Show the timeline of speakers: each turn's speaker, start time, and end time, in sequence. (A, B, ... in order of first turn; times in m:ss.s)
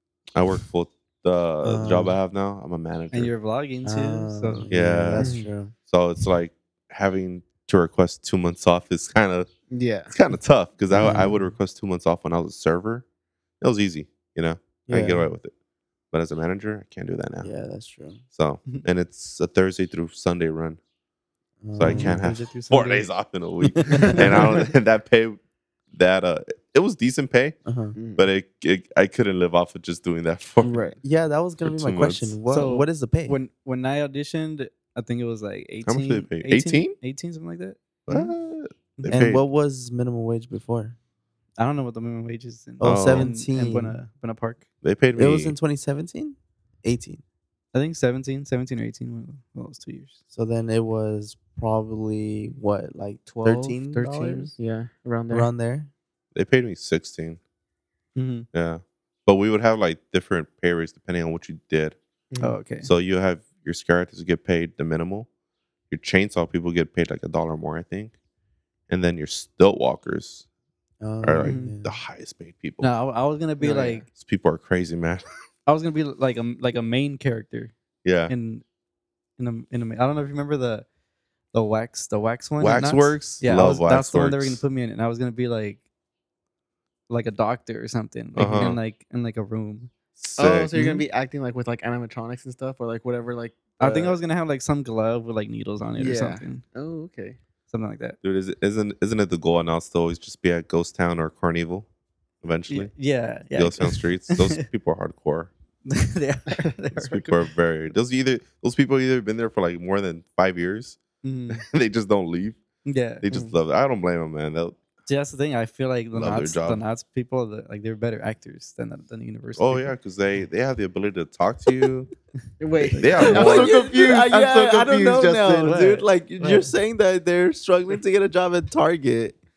0:00.4-0:03.3 A
0:01.6-0:02.2 B
0:03.1-0:04.7 C
0:03.8-0:05.7 B
0:04.7-0:05.3 A
0:05.2-0:05.5 D
0:05.9-0:09.5 A
0:09.7-0:10.1 D
0:10.1-0:13.0 A
0:10.9-0:11.4 B
0:13.6-0:15.5 A
0:14.9-0:15.3 B
0:16.1-0:17.5 A
0:17.4-0:18.2 B
0:18.3-0:20.8 A
0:21.6-0:22.3 B
0:21.8-0:25.4 A
0:21.9-0:23.1 C
0:23.9-0:24.4 B
0:23.9-0:24.6 C
0:25.9-0:27.6 A
0:27.6-0:28.0 B
0:28.0-0:28.3 D
0:28.2-0:30.8 A
0:30.6-0:31.0 D
0:31.0-0:33.4 B
0:31.6-0:32.4 A
0:32.5-0:38.3 C
0:35.8-0:37.0 A
0:38.1-0:39.4 A
0:39.0-0:39.2 C
0:39.1-0:41.0 B
0:41.6-0:44.6 C
0:42.8-0:44.0 B
0:42.8-0:43.3 A
0:44.8-0:45.6 A
0:45.2-0:47.2 B
0:47.7-0:50.2 C
0:50.3-0:54.5 B
0:53.3-0:55.5 D
0:55.3-0:55.9 B
0:56.4-0:57.4 A
0:58.2-0:58.5 C
0:58.5-1:02.0 A
1:02.3-1:02.6 D
1:02.4-1:02.9 C
1:02.8-1:05.3 A
1:05.9-1:08.1 A
1:08.9-1:10.4 A
1:11.0-1:12.0 B
1:11.2-1:12.9 A
1:11.4-1:11.7 C
1:12.8-1:14.0 C
1:13.6-1:14.0 D
1:14.1-1:15.2 A
1:15.7-1:17.7 C
1:18.0-1:18.3 A
1:18.3-1:18.6 C
1:19.4-1:20.9 C
1:21.5-1:25.8 C
1:22.6-1:24.6 A
1:27.1-1:29.9 C
1:28.4-1:28.8 A
1:30.2-1:30.7 A
1:30.4-1:34.2 D
1:30.8-1:31.0 C
1:33.8-1:36.6 C
1:36.0-1:37.4 D
1:37.7-1:38.2 C
1:38.2-1:41.9 A
1:42.4-1:42.9 A
1:42.7-1:44.6 C
1:43.6-1:45.5 A
1:45.9-1:47.4 C
1:47.0-1:52.6 A
1:51.2-1:51.6 C
1:52.8-1:53.2 C
1:53.2-1:54.8 A
1:55.1-1:59.9 C
1:56.1-1:56.8 A
1:59.6-2:02.1 A
2:02.6-2:05.7 D
2:02.8-2:03.4 C
2:03.0-2:03.7 A
2:03.2-2:09.4 B
2:05.5-2:06.7 C